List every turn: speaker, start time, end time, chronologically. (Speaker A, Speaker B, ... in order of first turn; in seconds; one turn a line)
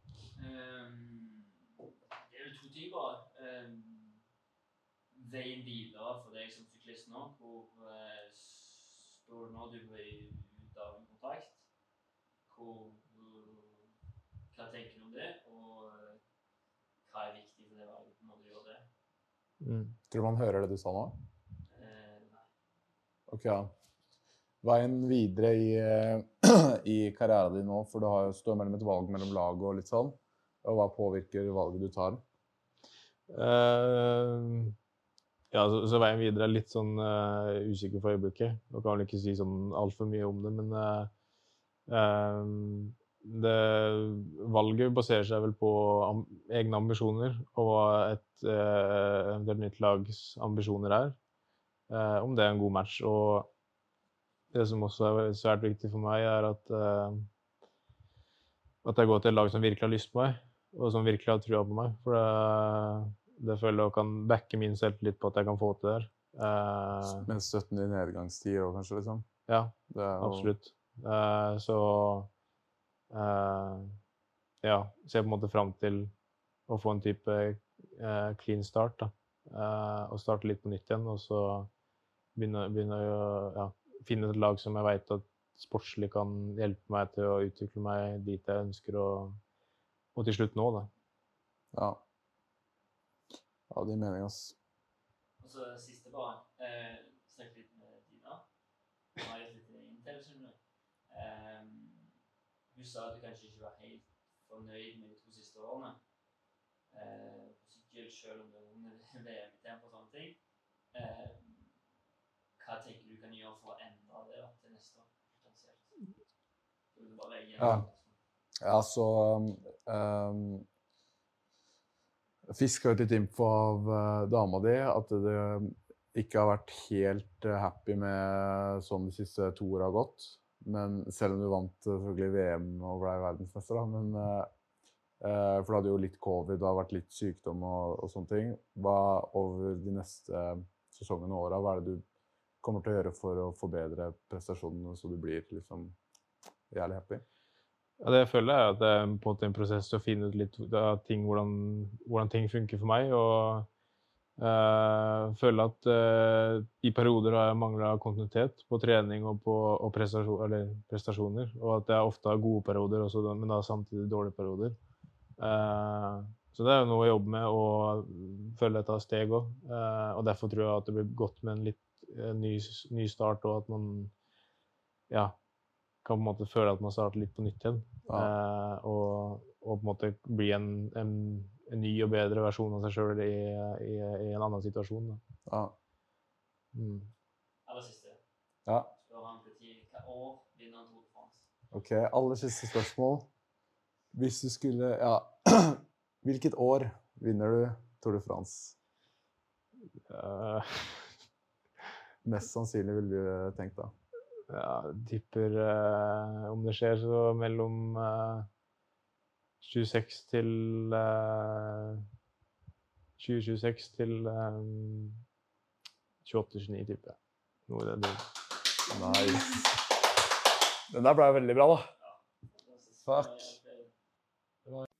Speaker A: 0.3-4.2
Speaker A: 5.1-11.6
Speaker A: 12.5-13.9
Speaker A: 14.5-16.2
Speaker A: 17.0-18.9
Speaker B: 19.6-20.0
Speaker C: 20.1-21.2
Speaker A: 21.7-22.5
Speaker C: 23.3-23.7
Speaker C: 24.6-32.2
Speaker B: 33.3-34.8
Speaker B: 35.5-41.1
Speaker B: 41.9-51.2
Speaker B: 51.9-53.5
Speaker B: 54.5-57.3
Speaker B: 58.8-67.3
Speaker C: 67.0-69.3
Speaker B: 69.5-72.3
Speaker C: 69.9-70.5
Speaker B: 73.1-74.0
Speaker B: 74.6-76.1
Speaker B: 76.7-81.7
Speaker B: 82.3-89.4
Speaker B: 90.2-90.9
Speaker C: 91.7-92.0
Speaker C: 93.7-94.6
Speaker A: 95.4-98.5
Speaker A: 99.2-106.1
Speaker A: 106.9-110.4
Speaker A: 110.9-111.8
Speaker A: 112.6-116.1
Speaker A: 116.9-118.2
Speaker C: 117.6-117.9
Speaker C: 118.6-120.7
Speaker C: 122.5-134.5
Speaker C: 135.2-142.0
Speaker C: 142.6-146.0
Speaker C: 146.7-147.2
Speaker B: 148.0-153.7
Speaker B: 154.4-164.8
Speaker B: 165.4-174.1
Speaker B: 175.1-175.4
Speaker B: 176.0-185.2
Speaker C: 185.5-185.8
Speaker B: 186.7-187.1
Speaker A: 187.7-188.2
Speaker A: 188.9-191.5
Speaker C: 191.7-193.3
Speaker C: 194.1-198.8
Speaker B: 200.1-201.2
Speaker C: 202.2-203.9
Speaker B: 204.5-208.5
Speaker B: 209.6-212.0
Speaker B: 213.2-215.2
Speaker B: 216.2-218.3
Speaker C: 218.9-219.6
Speaker C: 220.9-221.9
Speaker A: 222.0-223.9
Speaker C: 223.1-223.6